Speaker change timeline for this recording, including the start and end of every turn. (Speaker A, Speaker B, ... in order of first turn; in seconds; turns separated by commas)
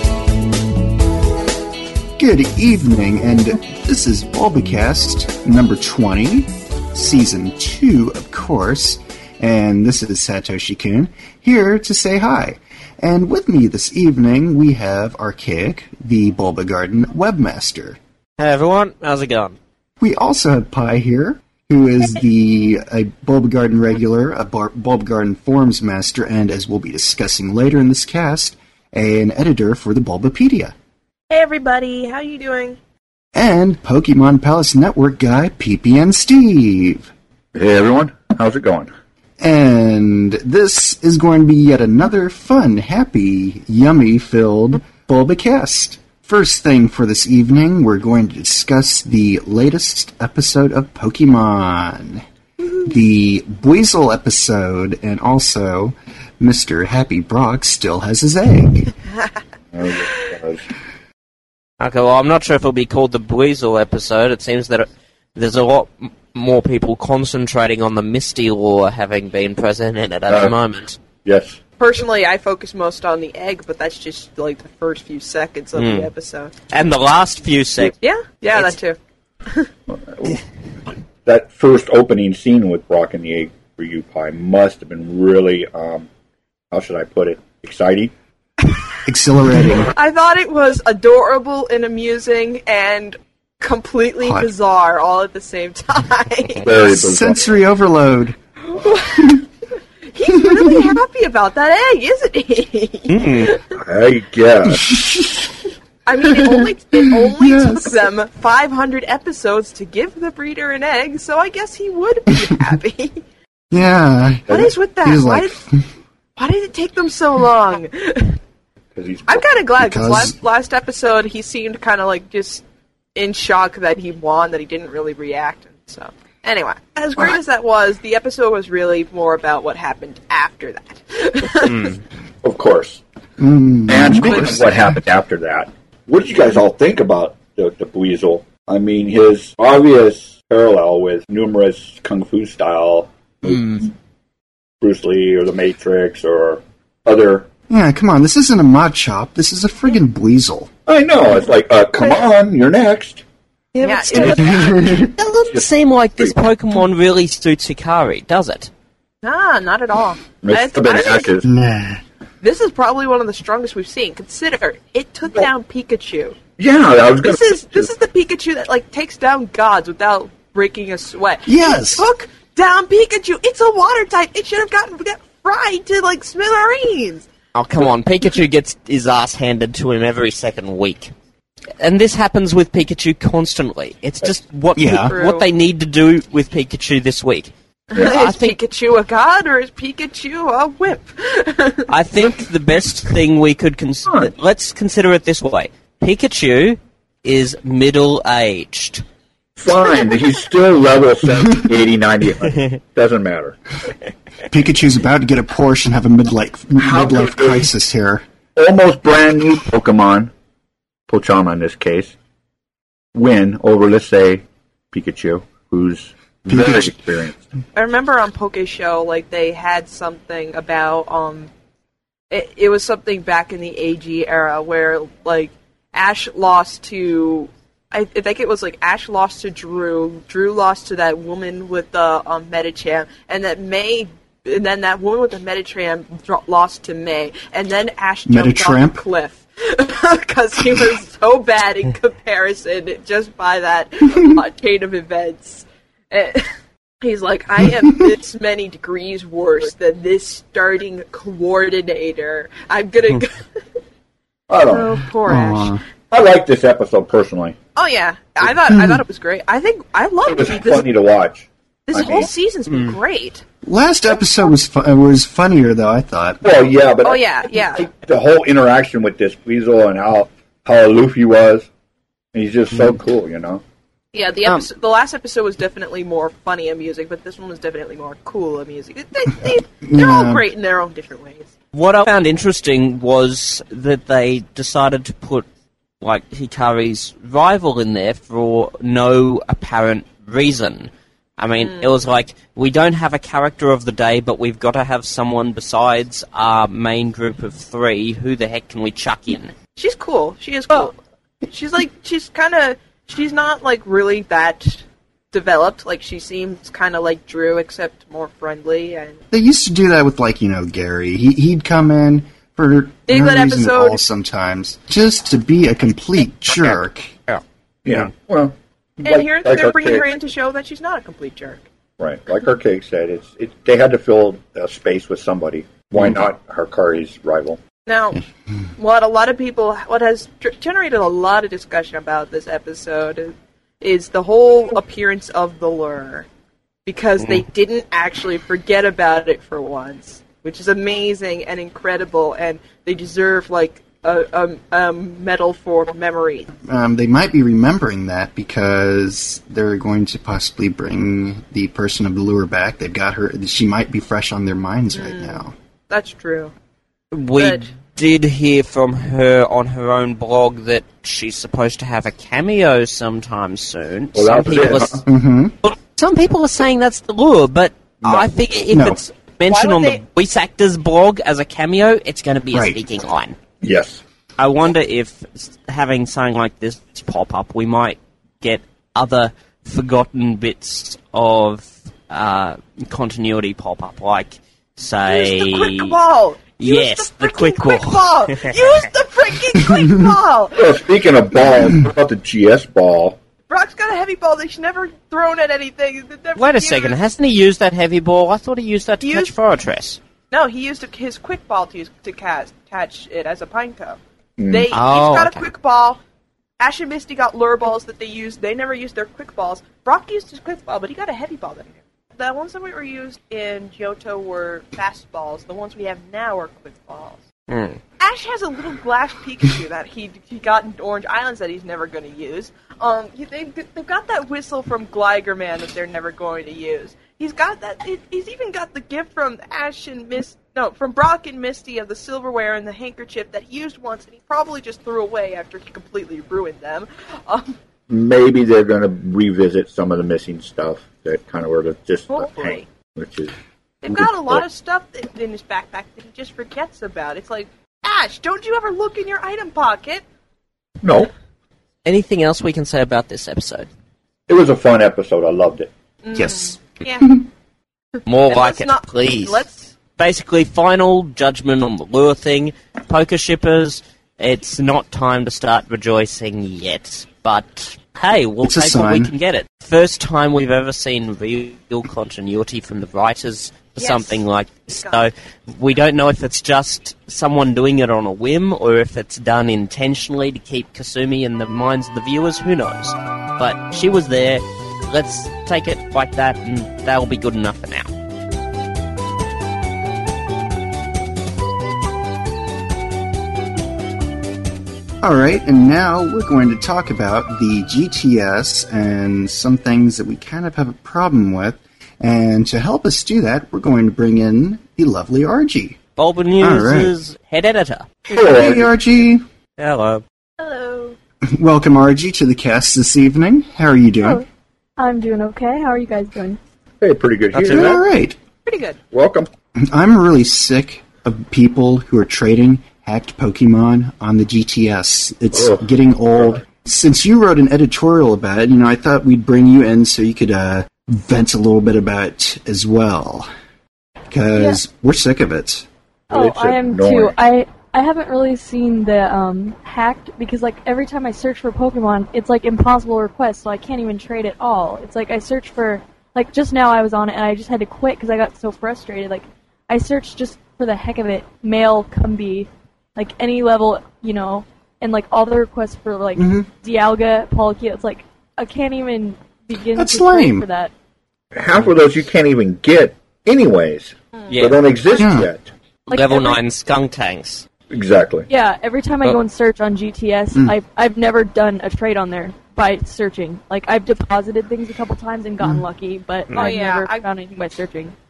Speaker A: 2.2-18.0, Speaker B: 18.4-19.6, Speaker A: 20.0-30.7, Speaker C: 31.3-32.8, Speaker A: 33.3-37.1, Speaker D: 37.5-38.9, Speaker A: 39.4-52.2, Speaker A: 52.8-58.9, Speaker D: 59.7-60.6, Speaker B: 61.8-71.0, Speaker D: 70.3-70.5, Speaker D: 71.2-71.6, Speaker C: 71.8-76.5, Speaker B: 75.8-76.1, Speaker B: 76.7-77.9, Speaker C: 77.8-79.7, Speaker D: 79.9-80.4, Speaker D: 81.2-86.1, Speaker D: 86.7-88.1, Speaker A: 89.0-89.9, Speaker C: 89.9-96.8, Speaker A: 94.2-94.5, Speaker D: 96.6-97.5, Speaker A: 96.7-98.4, Speaker C: 98.7-99.4, Speaker C: 100.1-103.7, Speaker A: 100.3-101.0, Speaker B: 103.1-103.5, Speaker D: 103.7-105.0, Speaker A: 104.7-105.5, Speaker C: 106.0-113.2, Speaker A: 106.2-108.1, Speaker A: 113.7-115.9, Speaker C: 114.5-115.6, Speaker C: 116.4-118.4, Speaker D: 118.9-119.6, Speaker C: 119.3-122.6, Speaker A: 119.8-120.3, Speaker C: 123.1-131.9, Speaker B: 131.6-132.0, Speaker D: 132.4-133.0, Speaker A: 133.4-134.8, Speaker D: 133.9-143.9, Speaker D: 144.8-147.5, Speaker A: 147.7-150.7, Speaker D: 150.9-153.2, Speaker E: 153.7-154.4, Speaker C: 153.8-154.8, Speaker D: 154.1-155.7, Speaker A: 154.4-155.1, Speaker B: 155.2-158.7, Speaker C: 159.2-161.3, Speaker D: 160.4-161.5, Speaker A: 161.4-162.0, Speaker C: 162.4-166.4, Speaker D: 166.6-167.9, Speaker C: 167.2-177.3, Speaker A: 171.4-172.1, Speaker B: 177.5-181.1, Speaker B: 181.8-187.5, Speaker A: 184.8-185.1, Speaker C: 185.1-185.4, Speaker C: 187.9-191.9, Speaker B: 188.1-188.6, Speaker B: 191.9-199.0, Speaker D: 199.6-203.6, Speaker A: 204.5-208.2, Speaker D: 206.8-207.7, Speaker D: 208.6-210.3, Speaker D: 211.1-212.1, Speaker D: 213.1-217.5, Speaker A: 216.5-216.9, Speaker C: 217.7-221.5, Speaker C: 222.3-253.6, Speaker A: 238.2-239.0, Speaker D: 254.5-255.0, Speaker C: 254.6-255.8, Speaker A: 255.2-255.8, Speaker D: 256.1-257.6, Speaker C: 257.8-261.1, Speaker A: 258.7-259.0, Speaker D: 260.2-262.3, Speaker C: 261.9-263.4, Speaker B: 262.7-263.0, Speaker A: 263.6-266.4, Speaker D: 266.4-271.7, Speaker C: 267.0-267.9, Speaker D: 272.3-273.6, Speaker C: 274.1-281.5, Speaker A: 279.8-280.4, Speaker B: 281.7-285.5, Speaker B: 286.0-299.5, Speaker C: 291.6-291.9, Speaker C: 299.8-301.0, Speaker C: 301.5-309.2, Speaker A: 309.3-317.1, Speaker C: 313.1-314.0, Speaker B: 316.5-317.4, Speaker D: 317.8-320.1, Speaker C: 319.0-321.6, Speaker D: 322.0-327.6, Speaker C: 327.9-328.2, Speaker C: 328.8-336.3, Speaker C: 336.9-346.5, Speaker A: 346.6-355.5, Speaker C: 354.9-356.5, Speaker B: 357.1-365.0, Speaker C: 357.4-357.7, Speaker D: 364.1-365.0, Speaker A: 365.1-365.5, Speaker B: 365.6-373.4, Speaker A: 368.7-369.0, Speaker C: 369.5-370.0, Speaker A: 372.5-372.8, Speaker D: 373.6-374.0, Speaker B: 374.4-386.0, Speaker C: 385.1-390.8, Speaker B: 386.6-388.8, Speaker D: 390.5-393.2, Speaker C: 393.5-397.0, Speaker B: 396.4-400.0, Speaker C: 399.0-399.3, Speaker C: 400.3-406.0, Speaker D: 404.4-404.7, Speaker B: 404.7-405.4, Speaker C: 406.6-417.2, Speaker B: 417.5-417.8, Speaker C: 418.0-437.6, Speaker D: 437.9-443.3, Speaker C: 442.1-442.7, Speaker C: 443.8-450.0, Speaker D: 443.8-444.4, Speaker D: 450.8-451.1, Speaker B: 451.8-453.7, Speaker D: 454.3-455.7, Speaker C: 456.0-457.2, Speaker A: 456.1-456.5, Speaker B: 458.1-459.4, Speaker C: 458.3-459.7, Speaker B: 460.0-487.9, Speaker A: 468.4-469.1, Speaker C: 473.8-474.2, Speaker C: 474.8-475.1, Speaker A: 495.0-505.8, Speaker B: 506.0-507.9, Speaker A: 506.4-506.9, Speaker D: 508.1-508.7, Speaker A: 508.1-509.2, Speaker B: 509.6-510.0, Speaker C: 510.4-511.0, Speaker A: 511.3-514.2, Speaker E: 514.0-514.2, Speaker E: 514.8-516.4, Speaker D: 516.8-517.9, Speaker B: 517.3-517.7, Speaker A: 517.5-518.2, Speaker C: 518.4-518.8, Speaker D: 518.9-519.3, Speaker A: 519.6-533.3, Speaker D: 525.3-525.6, Speaker A: 534.1-535.7, Speaker E: 536.1-560.7, Speaker D: 536.1-537.1, Speaker A: 556.1-556.5, Speaker A: 559.7-560.5, Speaker D: 561.3-565.5, Speaker B: 564.3-564.6, Speaker A: 565.0-565.3, Speaker E: 565.9-566.4, Speaker B: 565.9-567.5, Speaker D: 567.7-568.3, Speaker E: 568.3-577.9, Speaker B: 576.3-576.6, Speaker C: 576.3-577.1